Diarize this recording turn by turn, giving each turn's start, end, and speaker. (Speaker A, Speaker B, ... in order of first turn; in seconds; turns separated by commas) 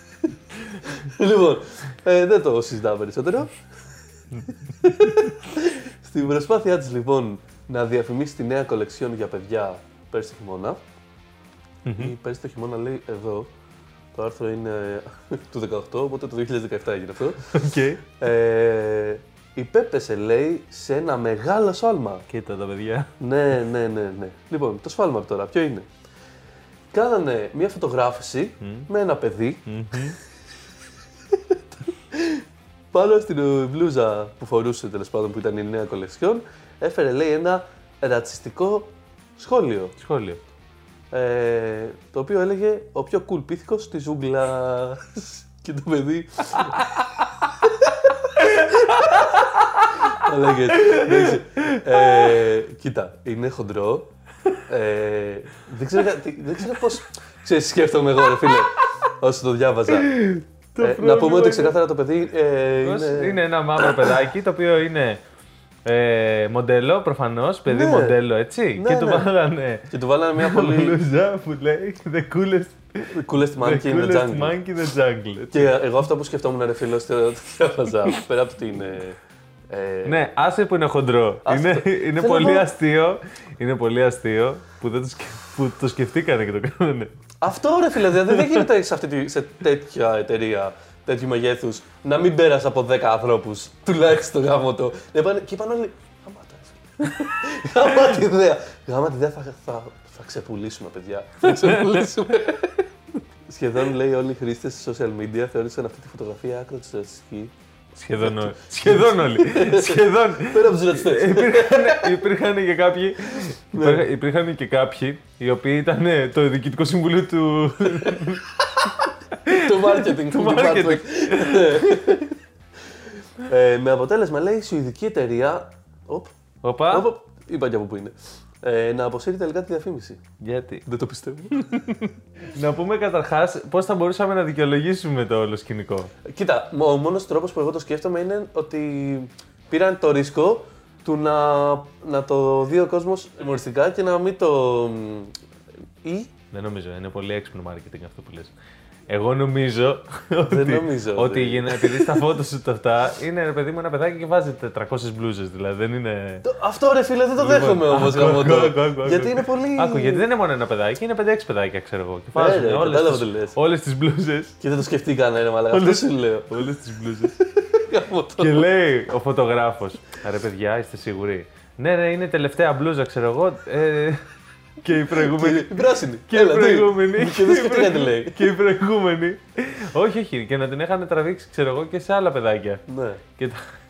Speaker A: 0.3-3.5, Speaker A: 4.5-10.8, Speaker B: 11.8-12.1, Speaker A: 11.9-13.5, Speaker A: 14.1-17.4, Speaker B: 17.4-18.1, Speaker A: 18.2-22.2, Speaker B: 22.3-23.1, Speaker A: 23.2-25.9, Speaker A: 26.9-30.1, Speaker B: 28.6-28.9, Speaker B: 29.6-30.2, Speaker A: 31.3-39.9, Speaker B: 40.0-40.4, Speaker A: 41.1-54.1, Speaker B: 48.4-50.2, Speaker B: 50.8-52.5, Speaker A: 54.7-60.1, Speaker B: 59.9-61.8, Speaker A: 60.8-64.1, Speaker B: 62.8-65.2, Speaker B: 65.8-75.8, Speaker A: 67.7-68.2, Speaker A: 68.8-69.3, Speaker A: 69.9-71.0, Speaker A: 73.1-74.5, Speaker A: 75.5-79.2, Speaker A: 79.7-80.2, Speaker B: 80.0-87.1, Speaker A: 81.5-82.7, Speaker A: 87.4-102.9, Speaker B: 88.1-88.7, Speaker B: 101.4-102.1, Speaker A: 103.4-107.5, Speaker B: 108.0-122.2, Speaker A: 108.2-112.2, Speaker A: 113.7-114.0, Speaker A: 119.5-122.3, Speaker A: 123.4-126.3, Speaker B: 126.6-127.1, Speaker A: 126.9-130.2, Speaker B: 130.4-130.8, Speaker A: 130.8-131.6, Speaker B: 131.7-136.1, Speaker A: 136.2-145.3, Speaker A: 146.0-146.3, Speaker B: 146.5-148.5, Speaker B: 149.1-156.4, Speaker A: 150.5-152.2, Speaker A: 156.4-160.3, Speaker B: 157.4-164.5, Speaker A: 162.3-163.6, Speaker A: 164.6-168.7, Speaker B: 165.7-167.3, Speaker B: 168.4-174.2, Speaker B: 174.8-182.8, Speaker A: 175.1-178.5, Speaker A: 182.9-183.2, Speaker B: 183.4-183.6